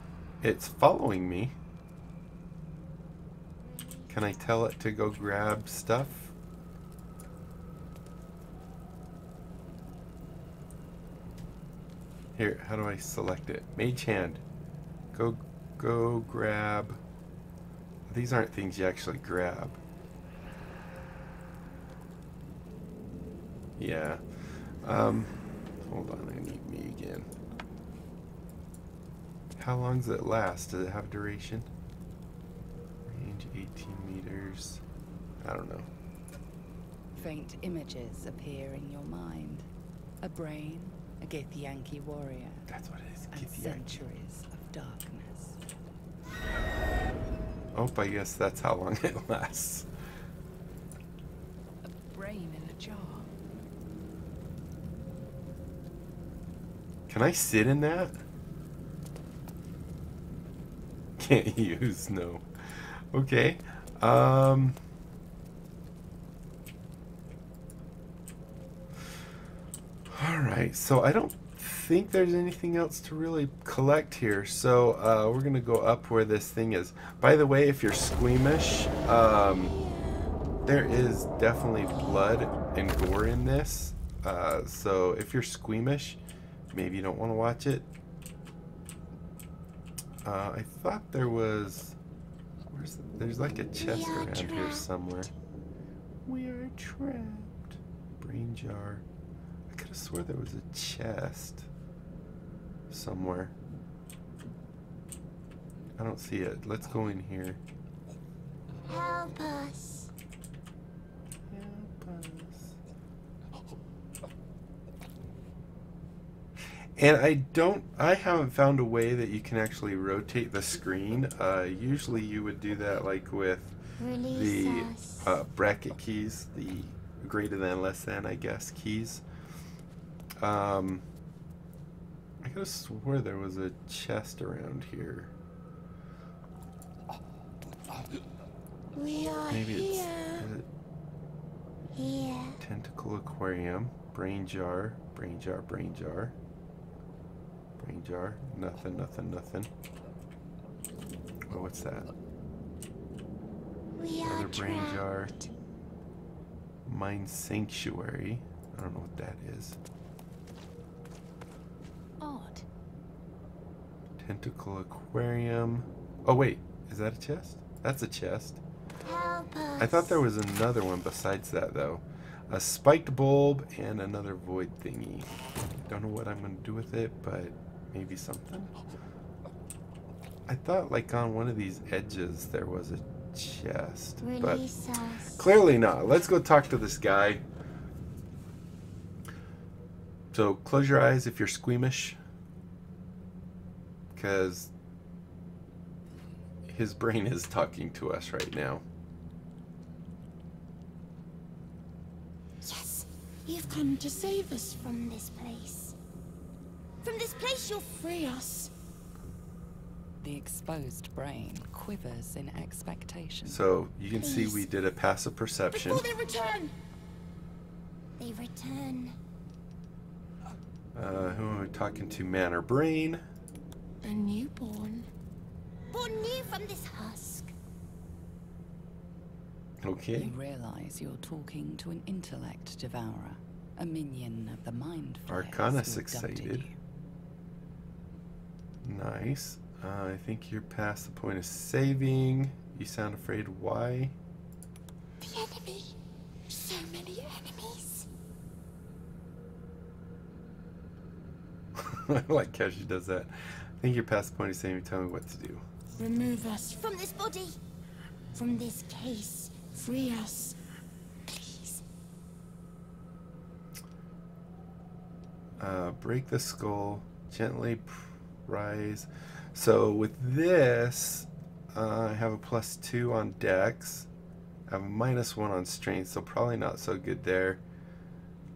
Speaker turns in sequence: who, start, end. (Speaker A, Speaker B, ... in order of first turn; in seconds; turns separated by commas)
Speaker A: 0.4-1.5, Speaker A: 4.1-6.3, Speaker A: 12.3-14.4, Speaker A: 15.1-17.0, Speaker A: 18.1-19.8, Speaker A: 23.8-27.3, Speaker A: 29.6-31.7, Speaker A: 33.0-34.8, Speaker A: 35.4-35.9, Speaker B: 37.1-39.6, Speaker B: 40.2-42.7, Speaker A: 42.7-44.0, Speaker B: 43.3-45.6, Speaker A: 47.7-49.9, Speaker C: 51.8-53.3, Speaker A: 57.1-58.2, Speaker A: 61.2-62.5, Speaker A: 63.1-64.8, Speaker A: 70.1-79.7, Speaker A: 80.6-86.2, Speaker A: 86.7-87.9, Speaker A: 90.2-92.0, Speaker A: 92.7-95.3, Speaker D: 93.8-94.9, Speaker A: 96.2-99.0, Speaker A: 99.7-101.7, Speaker A: 102.9-103.5, Speaker A: 106.0-107.6, Speaker D: 108.9-110.1, Speaker A: 111.5-112.8, Speaker A: 117.0-123.8, Speaker D: 124.0-125.3, Speaker A: 124.3-129.2, Speaker A: 130.4-131.0, Speaker A: 132.4-135.3, Speaker D: 138.9-140.5, Speaker A: 139.5-140.7, Speaker D: 141.9-142.6, Speaker A: 142.6-146.3, Speaker A: 147.8-149.7, Speaker A: 151.5-152.1, Speaker D: 154.0-155.5, Speaker A: 154.2-155.3, Speaker A: 156.8-159.8, Speaker C: 162.2-162.6, Speaker A: 164.2-168.6, Speaker D: 169.0-170.2, Speaker A: 169.8-175.3, Speaker A: 175.8-178.7, Speaker A: 180.5-184.6, Speaker D: 184.2-185.4, Speaker A: 185.3-187.4, Speaker A: 190.3-192.2, Speaker A: 194.1-194.7, Speaker A: 196.7-198.8, Speaker D: 202.6-205.9, Speaker D: 207.0-208.7, Speaker B: 210.2-213.6, Speaker A: 213.4-216.1, Speaker D: 214.2-214.6, Speaker D: 215.7-216.7, Speaker D: 218.2-219.2, Speaker A: 220.9-223.2, Speaker D: 224.0-225.1, Speaker D: 225.9-227.5, Speaker A: 229.8-230.3, Speaker B: 230.1-236.7, Speaker A: 235.3-236.7, Speaker A: 238.8-244.2, Speaker D: 245.2-245.9, Speaker D: 246.5-248.1, Speaker A: 251.7-255.6, Speaker D: 256.0-257.6, Speaker D: 258.3-260.6, Speaker D: 261.3-261.8, Speaker A: 265.6-274.1, Speaker A: 274.7-277.6